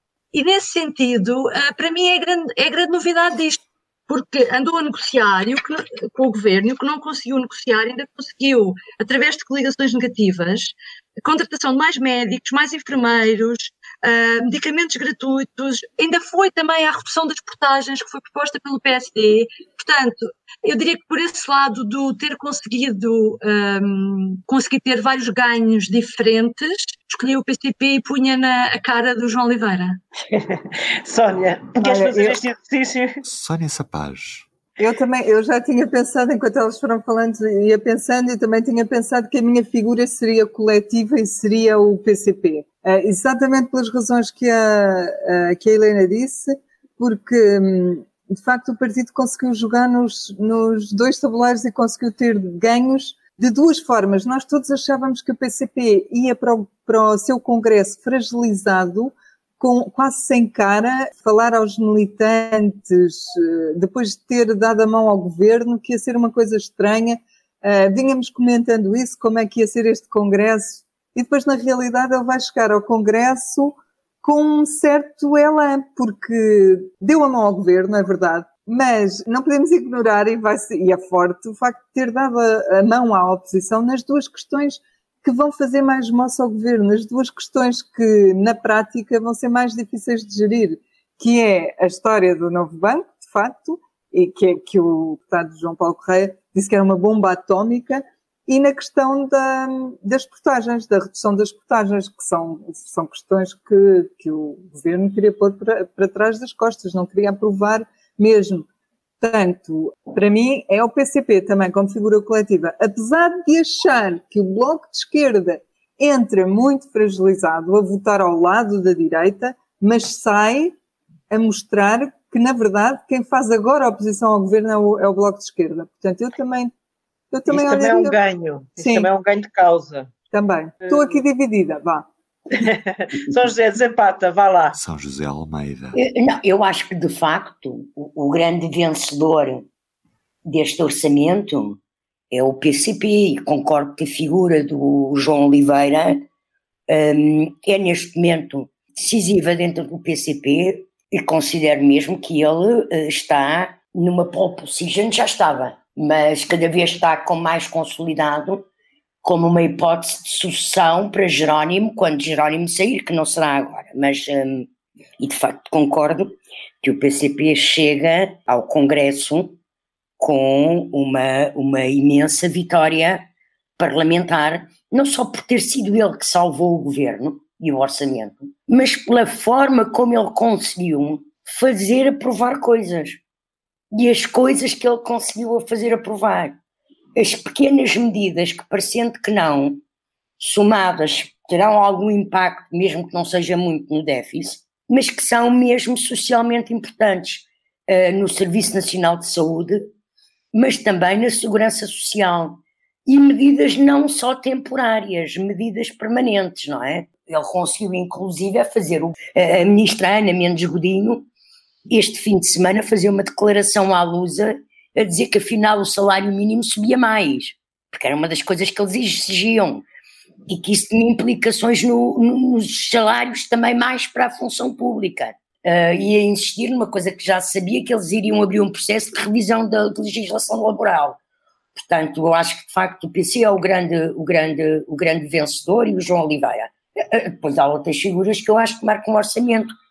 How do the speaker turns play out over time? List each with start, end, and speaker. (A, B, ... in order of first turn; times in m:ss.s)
0:00.3-0:30.0 A
0:30.3-0:33.2 B
0:31.8-0:32.4 C
0:33.2-0:34.4 D
0:34.8-1:48.7 C
1:49.2-2:00.7 C
2:01.3-2:06.7 C
2:07.3-2:08.2 C
2:07.5-2:10.1 B
2:08.8-2:09.1 C
2:10.3-2:12.0 C
2:12.6-2:14.8 B
2:14.7-2:16.0 D
2:16.2-2:19.6 E
2:20.5-2:21.8 E
2:22.3-2:26.1 E
2:26.9-2:38.6 E
2:39.2-2:44.7 E
2:45.2-2:46.3 E
2:46.8-2:49.5 E
2:50.2-2:53.2 E
2:53.8-3:03.2 E
3:03.9-3:06.5 E
3:07.2-3:09.8 E
3:10.4-3:19.8 E
3:20.6-3:31.2 E
3:31.9-3:39.8 E
3:40.5-3:51.2 E
3:51.8-3:59.6 E